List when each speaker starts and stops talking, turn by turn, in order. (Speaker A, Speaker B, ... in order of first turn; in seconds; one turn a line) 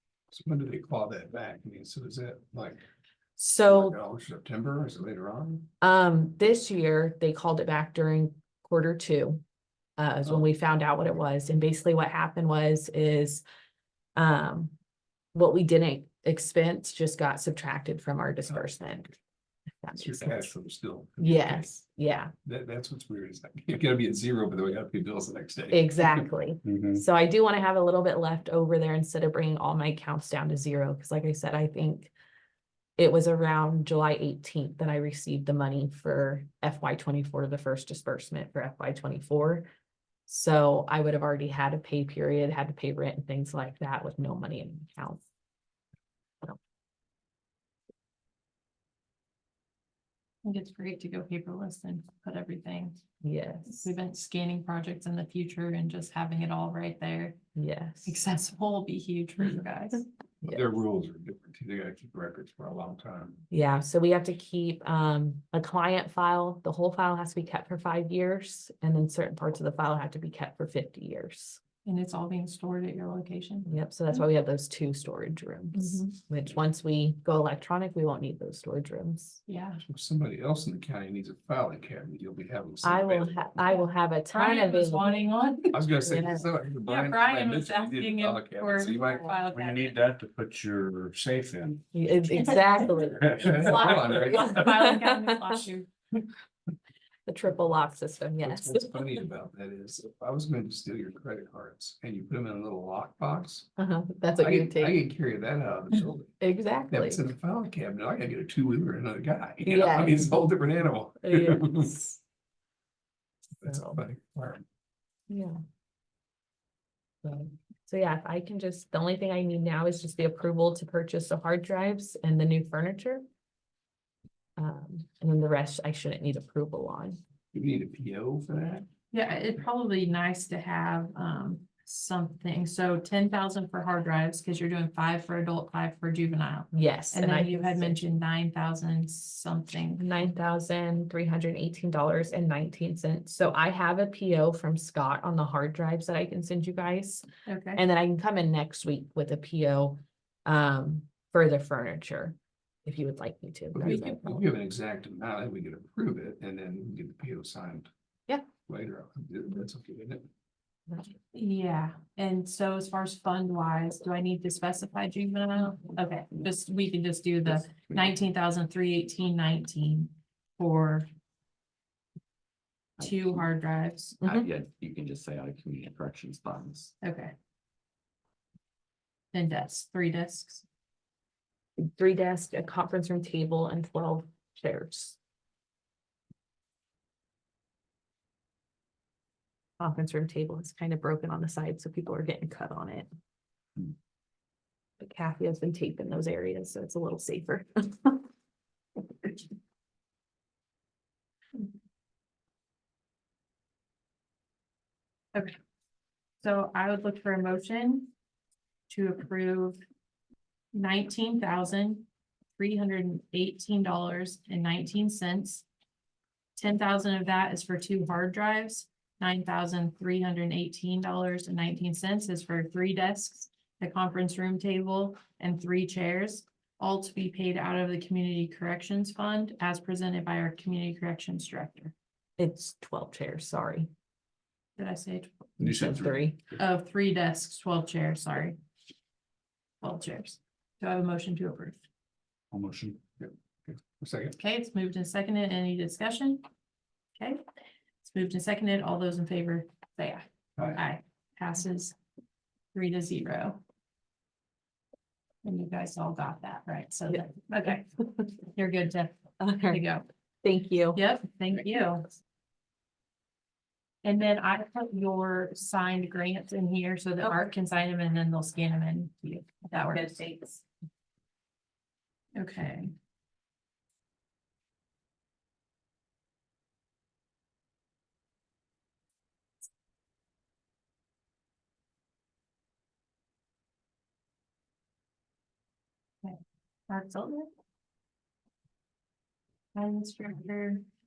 Speaker A: 0.3-2.8
Speaker B: 3.4-4.0
Speaker A: 3.6-5.7
Speaker B: 5.8-9.4
Speaker B: 10.0-13.4
Speaker B: 14.1-14.7
Speaker B: 15.3-19.2
Speaker A: 18.5-18.8
Speaker B: 19.8-20.5
Speaker A: 19.9-21.8
Speaker B: 21.2-22.3
Speaker A: 22.4-26.3
Speaker B: 25.7-32.1
Speaker C: 26.6-27.0
Speaker B: 33.0-39.7
Speaker B: 40.3-45.2
Speaker D: 50.4-53.0
Speaker B: 53.2-53.9
Speaker D: 53.7-57.4
Speaker B: 57.5-58.2
Speaker D: 58.0-60.0
Speaker A: 60.4-63.4
Speaker B: 63.5-71.6
Speaker D: 71.8-74.2
Speaker B: 73.7-79.4
Speaker D: 75.7-76.1
Speaker D: 79.5-79.8
Speaker A: 79.8-83.4
Speaker B: 82.8-85.3
Speaker D: 84.3-85.7
Speaker A: 85.7-89.4
Speaker B: 86.0-86.5
Speaker D: 86.8-90.0
Speaker C: 89.5-91.9
Speaker B: 91.9-95.4
Speaker C: 93.2-93.5
Speaker A: 93.2-94.7
Speaker D: 93.3-95.9
Speaker B: 97.3-99.2
Speaker A: 98.4-103.7
Speaker B: 103.8-105.0
Speaker A: 104.4-106.3
Speaker B: 106.4-107.2
Speaker A: 106.9-112.0
Speaker B: 109.6-110.4
Speaker B: 111.2-112.2
Speaker A: 113.6-114.6
Speaker B: 113.6-114.0
Speaker B: 115.3-115.6
Speaker B: 117.2-123.2
Speaker B: 124.6-127.2
Speaker A: 127.5-128.9
Speaker D: 129.1-140.0
Speaker B: 136.7-138.0
Speaker B: 140.0-147.2
Speaker D: 147.4-147.8
Speaker B: 147.8-154.4
Speaker A: 153.7-157.9
Speaker A: 158.7-160.2
Speaker D: 161.3-171.1
Speaker E: 173.0-173.4
Speaker D: 173.0-174.2
Speaker B: 174.2-174.5
Speaker E: 174.2-176.9
Speaker D: 177.0-177.3
Speaker D: 179.3-180.6
Speaker B: 181.8-185.2
Speaker B: 189.8-193.1
Speaker B: 195.0-198.2
Speaker D: 206.4-208.1
Speaker D: 208.9-209.8
Speaker D: 210.7-212.1
Speaker D: 212.6-215.6
Speaker D: 216.6-231.9
Speaker B: 232.4-233.9
Speaker D: 234.8-235.5
Speaker C: 235.6-236.2
Speaker B: 235.6-236.4
Speaker D: 236.5-238.6
Speaker D: 239.8-241.8
Speaker C: 242.5-243.0
Speaker A: 243.2-244.3
Speaker D: 244.4-246.4
Speaker D: 248.0-251.9
Speaker D: 252.7-253.6
Speaker D: 255.4-257.9
Speaker B: 257.1-258.3
Speaker D: 258.5-260.1
Speaker B: 259.4-259.8
Speaker B: 260.4-261.0
Speaker D: 260.9-262.1
Speaker D: 264.0-270.2
Speaker B: 269.8-270.6
Speaker D: 272.4-272.9
Speaker D: 286.9-287.5
Speaker D: 289.7-290.8